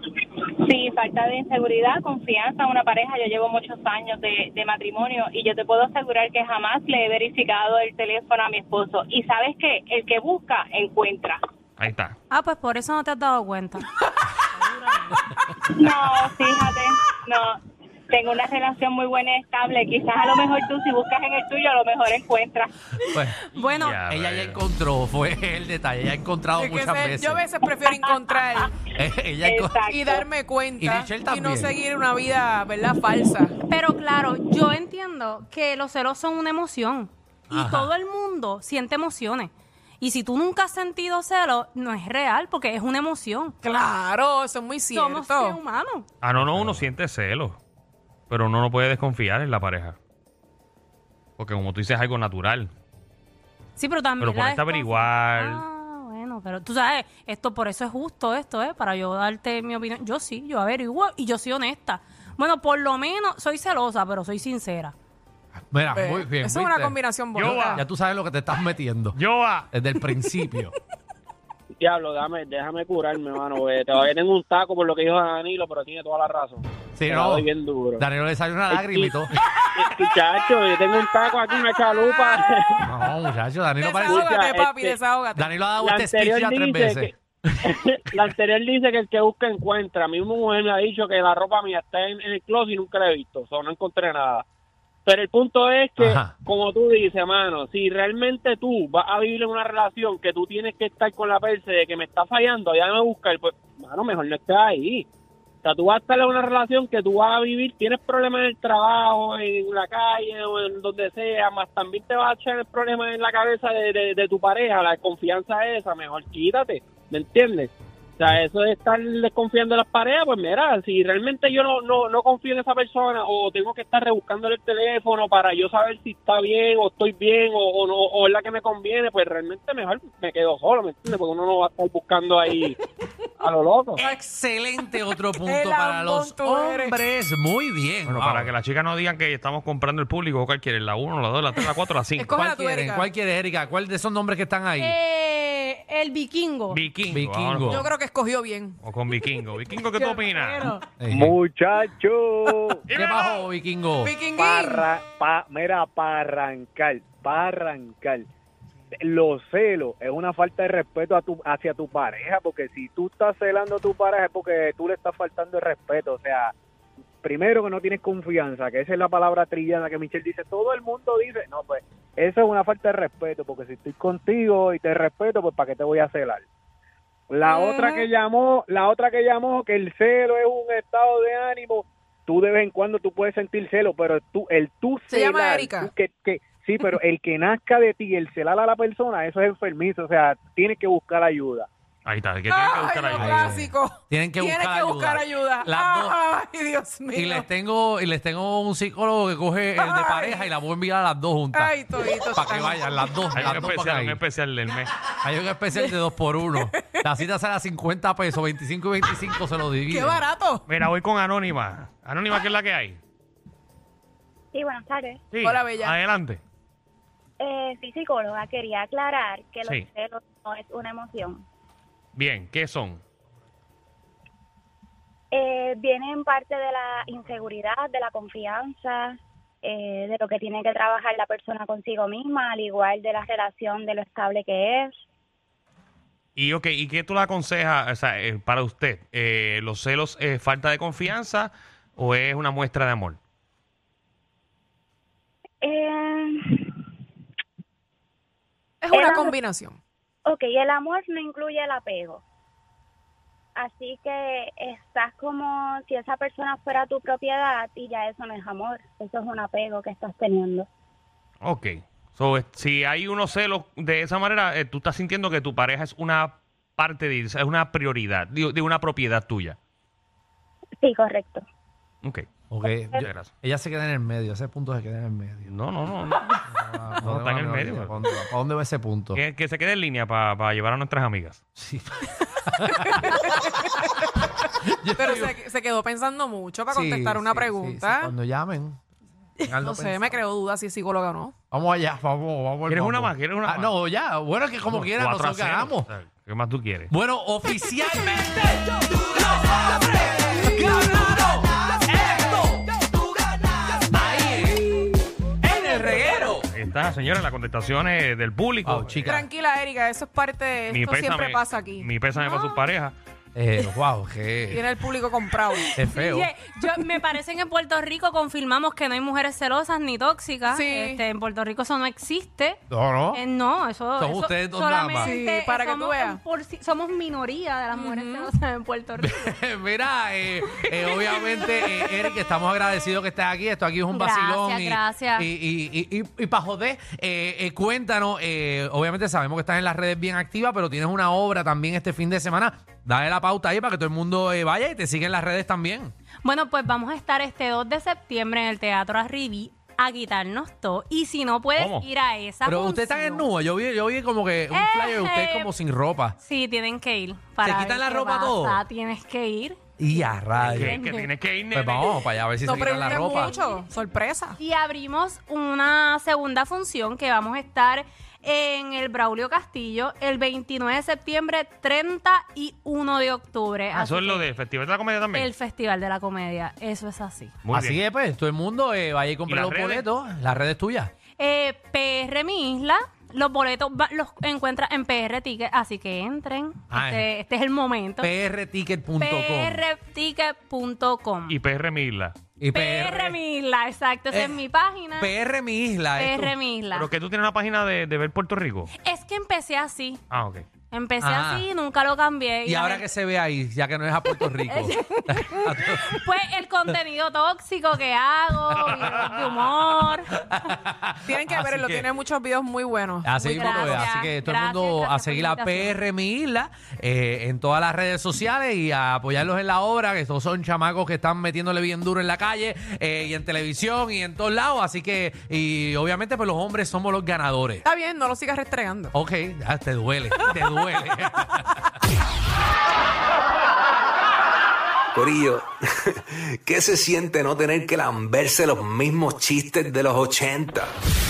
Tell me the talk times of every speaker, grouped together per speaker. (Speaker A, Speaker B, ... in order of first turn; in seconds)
Speaker A: 0.6-11.4, 15.7-22.7, 27.8-28.7, 29.4-30.3
Speaker B: 11.8-12.2, 23.6-24.6, 46.2-47.6, 48.3-50.0, 51.4-52.7, 54.2-55.6, 67.3-67.8, 69.1-69.7, 138.1-142.3, 146.7-147.9, 148.8-151.4, 152.9-153.4, 192.1-193.5, 203.3-205.0, 210.7-213.0, 215.3-216.4, 222.2-223.0, 236.4-243.2, 261.4-269.6, 272.0-272.3, 273.0-273.3, 275.4-276.4, 277.0-278.0, 279.1-281.4, 292.7-293.7, 294.6-296.9, 306.5-309.2, 310.7-312.9, 351.6-351.9, 360.4-362.0, 373.7-375.3, 377.4-377.8, 379.3-379.9, 391.3-392.1, 396.7-398.7, 400.1-400.4
Speaker C: 12.3-13.9, 14.5-15.2, 23.5-24.0, 33.7-43.5, 44.9-46.1, 53.8-64.9, 144.8-146.8, 150.0-150.8, 315.9-322.6, 323.1-329.3, 333.9-335.3, 346.2-353.3, 354.5-355.5, 356.2-359.6, 360.6-361.1, 362.5-363.6, 364.4-374.3, 375.1-377.3, 381.2-388.1, 389.0-391.4, 392.5-395.1, 395.9-396.9, 398.8-400.0, 400.7-402.9, 404.5-405.0, 405.6-410.1, 413.2-415.8
Speaker D: 23.0-23.4, 24.1-27.4, 28.9-29.8, 30.8-31.8, 37.5-37.9, 46.4-46.9, 65.7-69.2, 69.7-70.7, 77.0-77.5, 78.0-79.4, 82.8-84.3, 85.3-87.1, 96.0-96.3, 134.0-138.5, 142.3-144.9, 147.1-147.9, 151.0-151.3, 152.9-154.1, 193.1-196.2, 197.1-204.2, 205.1-210.2, 272.5-275.5, 276.5-279.2, 281.6-283.8, 284.6-285.4, 286.7-288.8, 289.4-290.2, 291.5-295.9, 296.9-306.5, 308.6-309.2, 313.4-314.6, 315.7-316.3, 322.7-323.2, 324.0-325.1, 329.0-345.9, 352.4-356.2, 357.4-358.6, 359.8-360.8, 361.5-363.4, 377.5-380.9, 386.7-387.1, 388.0-389.6, 392.4-393.2, 394.1-394.4, 395.0-396.4, 401.0-401.5, 402.4-406.0, 408.5-408.9, 410.4-411.9, 413.0-427.6, 428.9-431.7
Speaker E: 26.6-28.7, 29.8-33.5, 43.6-45.6, 65.9-67.8, 82.0-82.4, 83.8-85.6, 135.4-136.9, 142.2-143.1, 147.7-148.8, 154.0-154.9, 177.4-178.1, 185.1-185.9, 192.5-197.4, 199.8-200.4, 201.5-203.5, 206.7-207.0, 209.9-210.6, 215.4-216.0, 248.8-249.8, 282.9-283.8, 285.0-288.1, 289.5-291.3, 300.3-300.5, 309.1-312.5, 314.5-315.7, 320.5-321.0, 325.0-326.2, 327.7-328.3, 331.1-332.1, 362.4-364.4, 404.7-405.0, 411.1-413.9, 427.6-428.9
Speaker F: 71.8-78.0, 79.7-82.9, 84.0-85.0, 85.8-94.5, 95.0-105.0, 105.6-132.8, 133.4-134.0
Speaker G: 151.2-152.7, 154.4-158.3, 159.0-166.5, 167.2-176.4, 177.3-191.7
Speaker H: 214.5-215.2, 217.4-221.4, 225.3-234.9, 245.6-246.4, 248.9-249.3, 250.2-252.2, 253.6-260.7, 270.8-271.4
Speaker I: 434.9-435.5, 436.1-440.7